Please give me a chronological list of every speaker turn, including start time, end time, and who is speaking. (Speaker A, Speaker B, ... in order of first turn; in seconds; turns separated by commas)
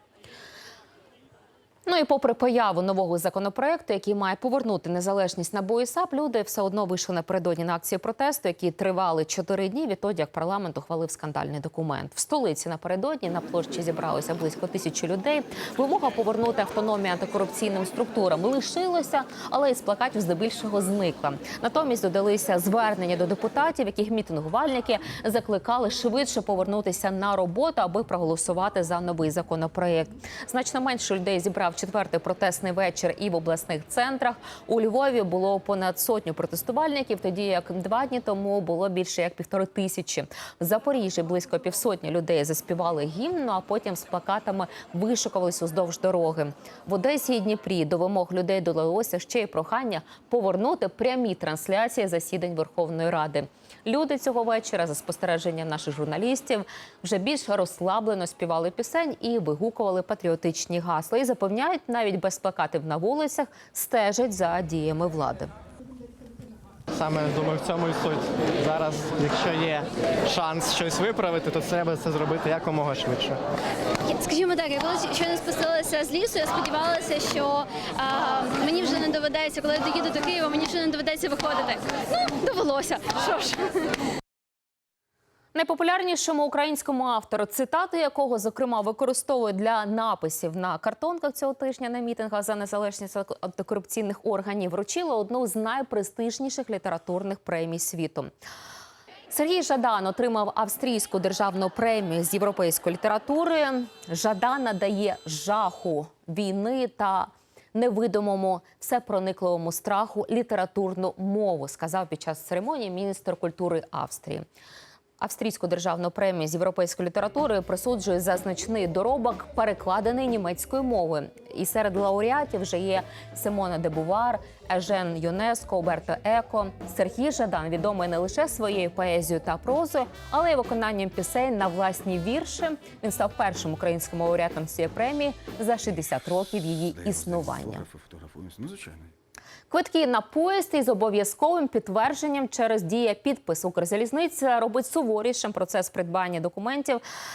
Speaker A: 1.9-65.5, Speaker B: 66.9-73.4, Speaker C: 74.1-81.8, Speaker C: 82.3-83.7, Speaker A: 85.5-98.3, Speaker A: 99.3-114.5, Speaker A: 115.2-137.9, Speaker D: 136.9-139.1, Speaker A: 139.7-147.0